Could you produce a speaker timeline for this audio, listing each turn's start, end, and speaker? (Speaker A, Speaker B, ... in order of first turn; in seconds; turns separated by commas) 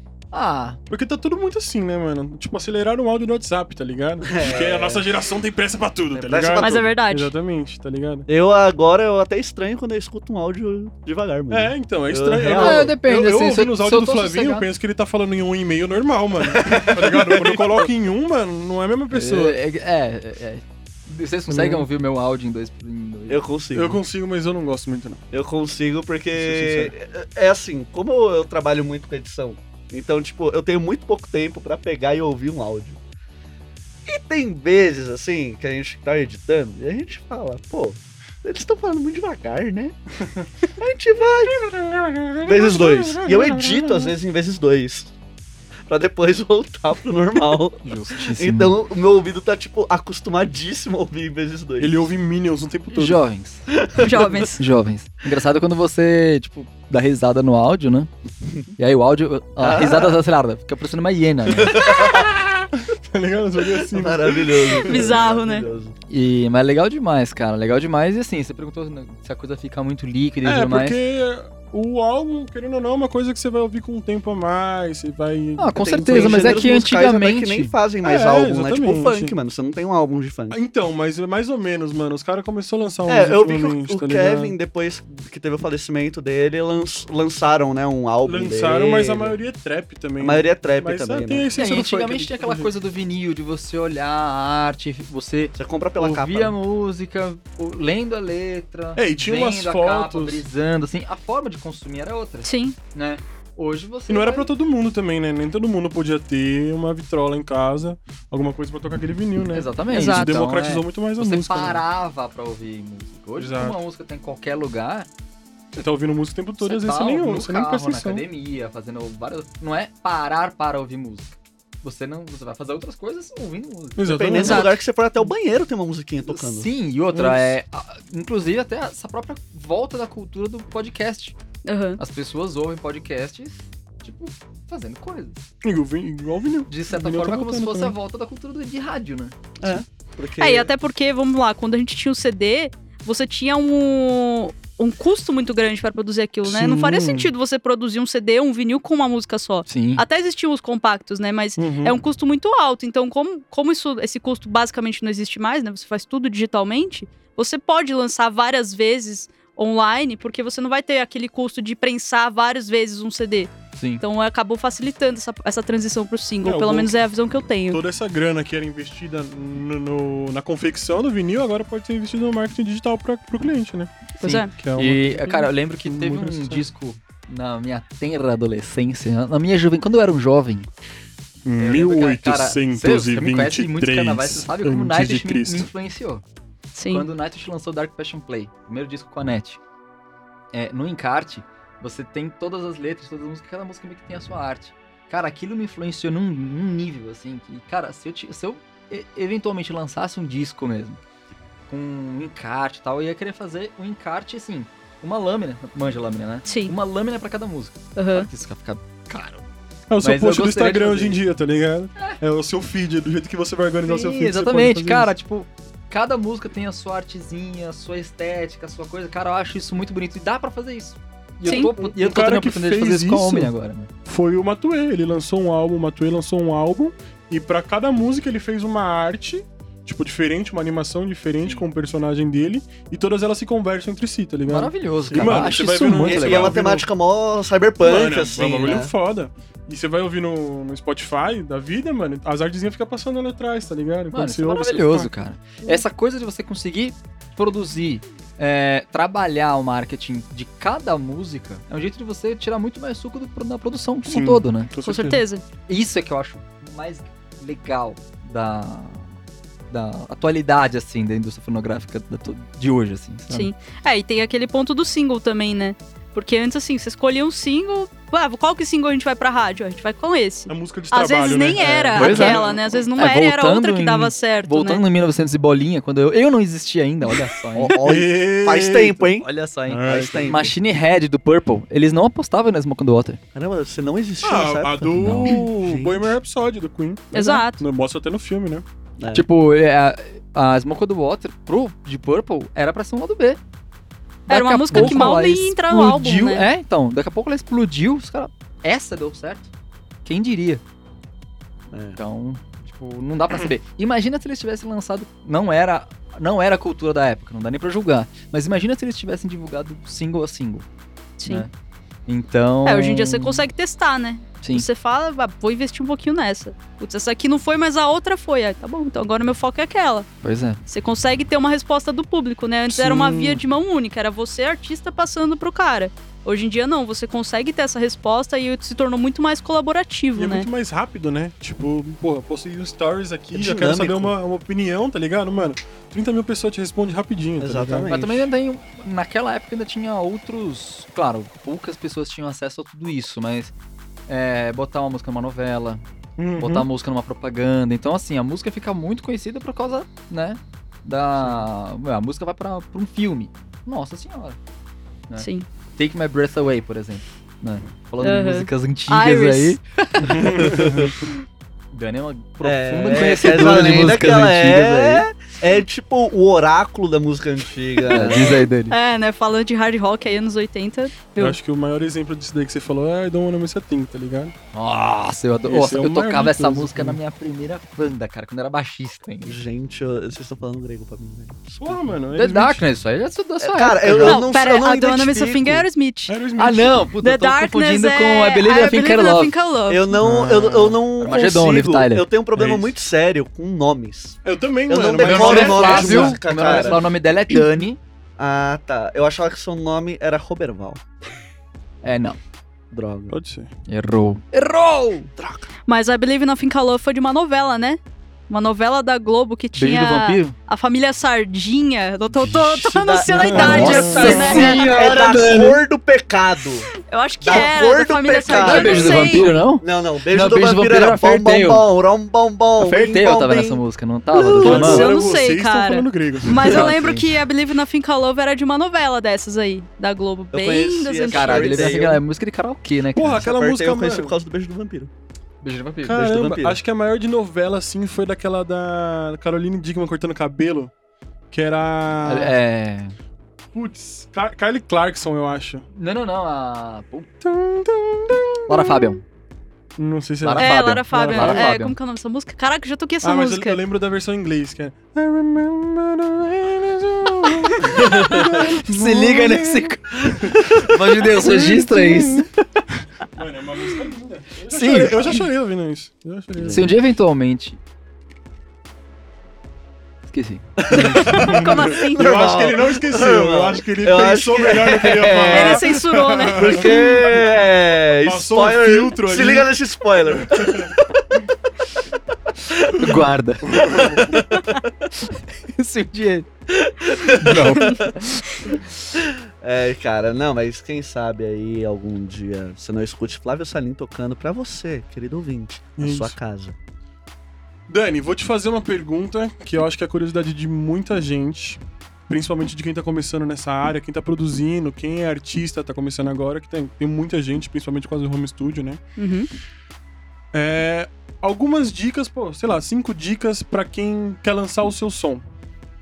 Speaker A: 0.3-0.8, Speaker B: 0.9-8.3, Speaker C: 4.2-5.0, Speaker C: 6.1-6.9, Speaker D: 6.6-7.3, Speaker C: 8.3-12.9, Speaker B: 11.5-19.6, Speaker A: 12.5-14.7, Speaker C: 16.4-17.9, Speaker A: 19.1-23.4, Speaker B: 21.5-21.9, Speaker C: 23.3-24.0, Speaker B: 23.7-25.2, Speaker C: 25.3-33.0, Speaker B: 26.4-26.9, Speaker C: 34.1-40.0, Speaker C: 40.8-41.6, Speaker B: 41.5-44.1, Speaker C: 42.5-45.1, Speaker C: 45.9-52.1, Speaker A: 47.8-48.8, Speaker B: 51.8-53.2, Speaker A: 52.9-53.7, Speaker C: 53.7-54.4, Speaker D: 54.0-54.6, Speaker A: 54.5-58.1, Speaker A: 58.8-61.8, Speaker C: 59.6-60.2, Speaker C: 61.5-62.3, Speaker B: 61.9-65.1, Speaker C: 63.8-66.0, Speaker D: 64.8-65.7, Speaker A: 66.1-71.0, Speaker B: 70.4-76.6, Speaker A: 75.6-77.7, Speaker C: 75.8-80.6, Speaker B: 78.0-79.3, Speaker B: 80.5-84.5, Speaker C: 83.1-89.4, Speaker B: 88.2-92.7, Speaker C: 90.2-91.5, Speaker A: 91.5-104.5, Speaker C: 95.5-96.6, Speaker B: 99.0-100.5, Speaker D: 102.4-102.8, Speaker B: 104.1-111.8, Speaker A: 109.5-115.1, Speaker D: 109.9-110.4, Speaker B: 113.4-113.8, Speaker B: 115.7-118.2, Speaker A: 116.6-124.1, Speaker B: 124.0-124.7, Speaker C: 124.1-126.7, Speaker D: 124.4-124.8, Speaker A: 126.2-131.4, Speaker B: 127.1-127.6, Speaker D: 131.6-132.0, Speaker A: 132.0-135.4, Speaker B: 135.6-137.9, Speaker A: 136.7-139.4, Speaker C: 139.6-140.7, Speaker D: 140.4-167.8, Speaker B: 146.4-147.3, Speaker A: 149.7-150.0, Speaker B: 151.6-152.0, Speaker A: 163.8-164.0, Speaker B: 166.4-166.9, Speaker B: 167.7-176.7, Speaker D: 174.2-174.5, Speaker A: 174.7-180.7, Speaker B: 181.4-185.7, Speaker A: 181.6-186.2, Speaker D: 186.8-187.1, Speaker A: 186.9-189.6, Speaker A: 190.5-201.0, Speaker A: 201.7-209.4, Speaker D: 206.4-206.8, Speaker D: 207.9-208.3, Speaker B: 209.9-215.1, Speaker A: 210.0-211.2, Speaker A: 213.8-223.9, Speaker D: 221.4-221.7, Speaker B: 221.5-223.5, Speaker B: 224.1-236.9, Speaker A: 234.5-236.6, Speaker C: 235.1-238.9, Speaker B: 237.8-245.1, Speaker A: 244.1-254.7, Speaker B: 254.1-255.2, Speaker D: 254.8-255.4, Speaker A: 255.7-259.1, Speaker A: 259.7-263.5, Speaker D: 263.3-274.8, Speaker B: 270.5-272.6, Speaker A: 271.9-272.4, Speaker A: 273.0-277.8, Speaker C: 277.6-279.3, Speaker B: 277.8-279.1, Speaker A: 279.2-283.2, Speaker B: 279.7-280.4, Speaker C: 279.8-280.6, Speaker C: 283.4-286.1, Speaker B: 284.2-288.6, Speaker A: 284.9-285.4, Speaker D: 287.1-287.6, Speaker C: 289.0-289.3, Speaker A: 289.1-293.4, Speaker D: 294.3-296.5, Speaker A: 294.3-299.5, Speaker B: 294.7-295.1, Speaker A: 300.1-300.6, Speaker C: 301.7-302.0, Speaker A: 301.9-310.6, Speaker D: 311.2-311.4, Speaker A: 311.3-311.5, Speaker A: 312.1-313.5, Speaker D: 312.6-320.1, Speaker A: 314.4-314.7, Speaker A: 320.2-320.6, Speaker D: 320.6-330.5, Speaker B: 322.7-323.4, Speaker B: 330.1-337.9, Speaker C: 333.3-334.1, Speaker C: 337.4-338.3, Speaker A: 337.9-343.5, Speaker A: 344.1-345.8, Speaker B: 346.2-346.7, Speaker A: 346.4-354.4, Speaker B: 351.2-351.4, Speaker A: 355.1-360.6, Speaker D: 355.2-355.4, Speaker D: 358.0-359.6, Speaker B: 360.1-361.0, Speaker C: 360.2-360.9, Speaker A: 361.7-365.1, Speaker C: 362.4-368.4, Speaker A: 367.9-368.8, Speaker D: 367.9-371.4, Speaker B: 371.2-374.4, Speaker A: 374.5-379.4, Speaker B: 375.4-377.0, Speaker C: 379.2-381.9, Speaker B: 381.6-382.6, Speaker A: 382.1-384.3, Speaker C: 383.4-385.7, Speaker D: 383.9-386.2, Speaker B: 386.1-386.9, Speaker A: 386.4-389.3, Speaker D: 387.0-389.9, Speaker C: 389.7-396.9, Speaker B: 389.9-390.8, Speaker A: 391.0-392.1, Speaker B: 392.4-392.8, Speaker B: 394.2-396.8, Speaker A: 395.0-397.8, Speaker C: 398.2-400.8, Speaker A: 401.8-402.2, Speaker C: 402.7-403.1, Speaker B: 403.1-403.5, Speaker A: 403.7-405.1, Speaker C: 405.2-405.5, Speaker D: 405.7-414.7, Speaker A: 409.6-410.4, Speaker A: 412.1-415.6, Speaker C: 412.4-416.7, Speaker B: 413.1-414.6, Speaker D: 416.8-419.4, Speaker C: 417.2-423.6, Speaker A: 418.4-421.6, Speaker A: 422.6-424.9, Speaker C: 424.1-424.9, Speaker B: 424.4-426.7, Speaker D: 424.4-431.7, Speaker A: 426.4-427.1, Speaker C: 430.3-432.0, Speaker A: 431.1-433.3, Speaker B: 432.9-434.1, Speaker C: 433.2-434.9, Speaker A: 435.4-436.5, Speaker B: 435.8-440.7, Speaker C: 436.2-436.6, Speaker B: 441.3-442.4, Speaker A: 442.0-442.9, Speaker B: 443.5-445.6, Speaker A: 445.7-447.1, Speaker B: 447.2-448.8, Speaker A: 448.5-449.0, Speaker B: 449.8-451.5, Speaker A: 450.2-451.8, Speaker D: 450.4-453.6, Speaker B: 453.0-462.3, Speaker A: 457.6-462.6, Speaker C: 457.7-458.5, Speaker C: 460.1-460.7, Speaker B: 463.0-466.8, Speaker A: 464.5-465.3, Speaker C: 466.4-466.7, Speaker A: 466.5-467.6, Speaker A: 470.1-470.9, Speaker C: 470.6-481.2, Speaker B: 470.7-477.3, Speaker D: 470.9-472.0, Speaker D: 475.3-476.9, Speaker B: 478.1-479.5, Speaker B: 480.1-480.7, Speaker C: 482.3-483.0, Speaker A: 482.8-483.4, Speaker B: 482.9-484.2, Speaker C: 483.7-484.7, Speaker A: 485.0-486.3, Speaker C: 486.5-487.9, Speaker A: 487.2-488.2, Speaker D: 487.6-487.8, Speaker C: 488.9-496.6, Speaker B: 495.8-496.1, Speaker B: 497.7-508.8, Speaker D: 509.0-509.3, Speaker B: 510.3-515.2